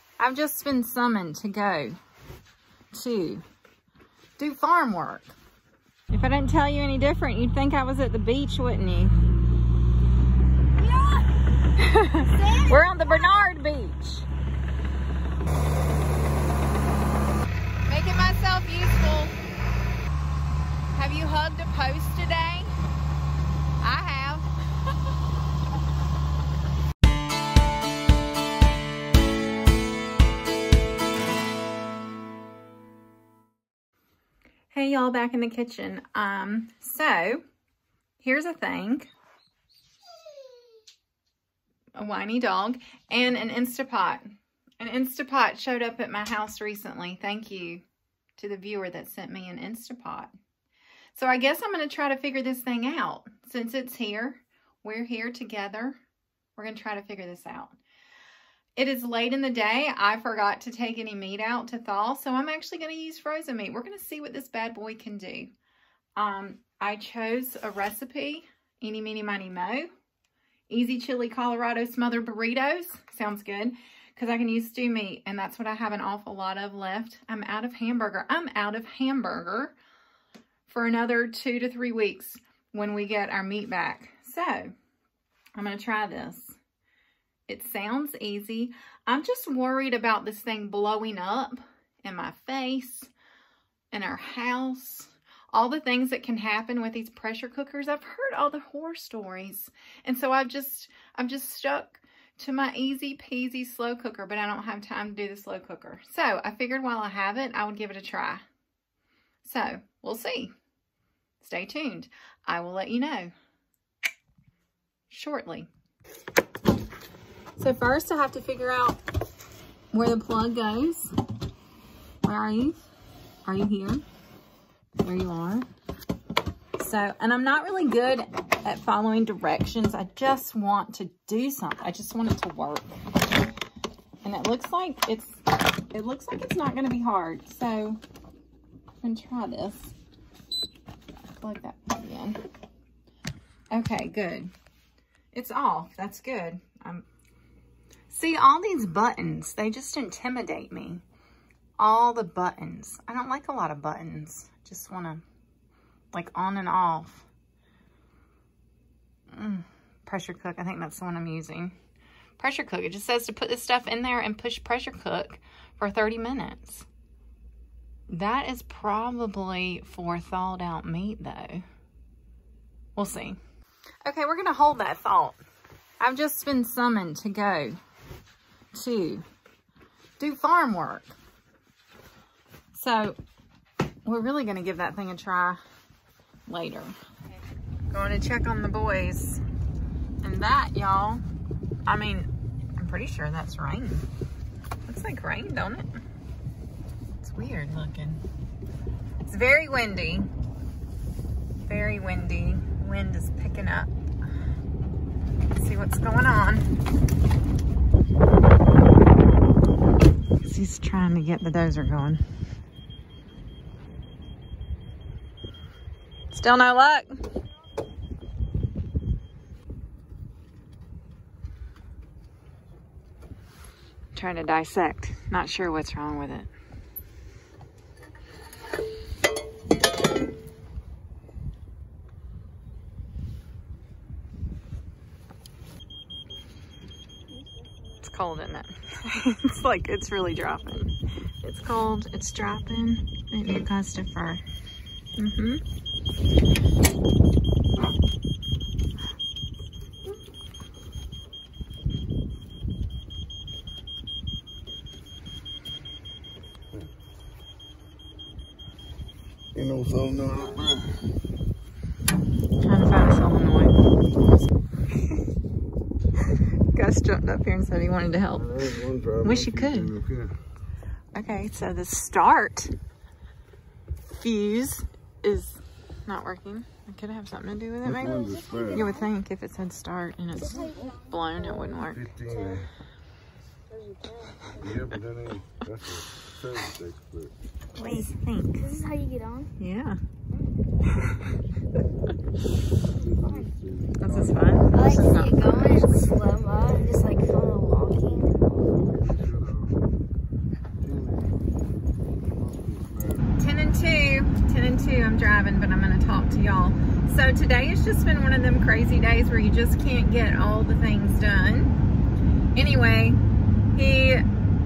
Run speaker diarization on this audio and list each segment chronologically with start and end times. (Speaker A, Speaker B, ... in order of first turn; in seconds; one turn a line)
Speaker A: 0.2-2.0
Speaker A: 2.9-3.4
Speaker A: 4.4-5.3
Speaker A: 6.1-9.2
Speaker B: 10.8-11.3
Speaker A: 11.8-14.3
Speaker B: 12.2-13.5
Speaker A: 17.9-19.4
Speaker A: 20.9-22.7
Speaker A: 23.8-24.5
Speaker A: 34.7-37.4
Speaker A: 38.2-39.1
Speaker A: 42.0-44.3
Speaker A: 44.8-47.8
Speaker A: 48.4-50.3
Speaker A: 51.1-56.0
Speaker A: 56.6-57.8
Speaker A: 58.8-65.5
Speaker A: 66.2-69.9
Speaker A: 70.7-79.7
Speaker A: 80.7-84.7
Speaker A: 85.6-86.6
Speaker A: 87.5-93.1
Speaker A: 93.9-108.4
Speaker A: 109.4-110.5
Speaker A: 111.4-113.3
Speaker A: 115.1-115.7
Speaker A: 117.6-119.0
Speaker A: 119.9-121.1
Speaker A: 122.2-122.8
Speaker A: 123.5-124.0
Speaker A: 125.0-125.7
Speaker A: 126.8-132.9
Speaker A: 134.2-138.0
Speaker A: 139.0-139.9
Speaker A: 141.3-142.4
Speaker A: 143.7-144.5
Speaker A: 145.3-147.1
Speaker A: 148.1-151.0
Speaker A: 151.8-155.2
Speaker A: 156.1-157.3
Speaker A: 159.3-161.8
Speaker A: 162.4-166.9
Speaker A: 168.1-171.6
Speaker A: 173.0-173.4
Speaker A: 174.1-175.4
Speaker A: 176.0-177.8
Speaker A: 178.7-179.2
Speaker A: 180.2-181.1
Speaker A: 182.7-183.2
Speaker A: 184.1-185.6
Speaker A: 186.5-186.9
Speaker A: 187.9-189.4
Speaker A: 190.2-191.2
Speaker A: 191.9-194.1
Speaker A: 194.9-195.9
Speaker A: 197.2-198.2
Speaker A: 199.3-200.3
Speaker A: 201.7-203.9
Speaker A: 205.6-206.7
Speaker A: 210.4-212.2
Speaker A: 216.3-217.1
Speaker A: 224.1-226.5
Speaker A: 238.0-244.4
Speaker A: 245.2-245.6
Speaker C: 259.5-261.0
Speaker A: 262.6-263.8
Speaker A: 266.7-268.5
Speaker C: 268.3-270.4
Speaker A: 269.2-269.9
Speaker A: 271.1-272.7
Speaker A: 274.1-282.1
Speaker C: 277.8-278.9
Speaker B: 278.2-279.0
Speaker B: 280.4-281.6
Speaker C: 281.9-282.7
Speaker B: 282.3-282.6
Speaker B: 283.7-284.7
Speaker C: 284.6-287.3
Speaker A: 287.8-288.8
Speaker B: 287.8-289.5
Speaker A: 289.6-290.0
Speaker C: 293.0-294.7
Speaker A: 294.0-296.1
Speaker B: 294.7-298.8
Speaker C: 298.8-299.9
Speaker C: 300.8-303.4
Speaker A: 303.4-311.7
Speaker A: 312.6-313.2
Speaker A: 313.7-314.2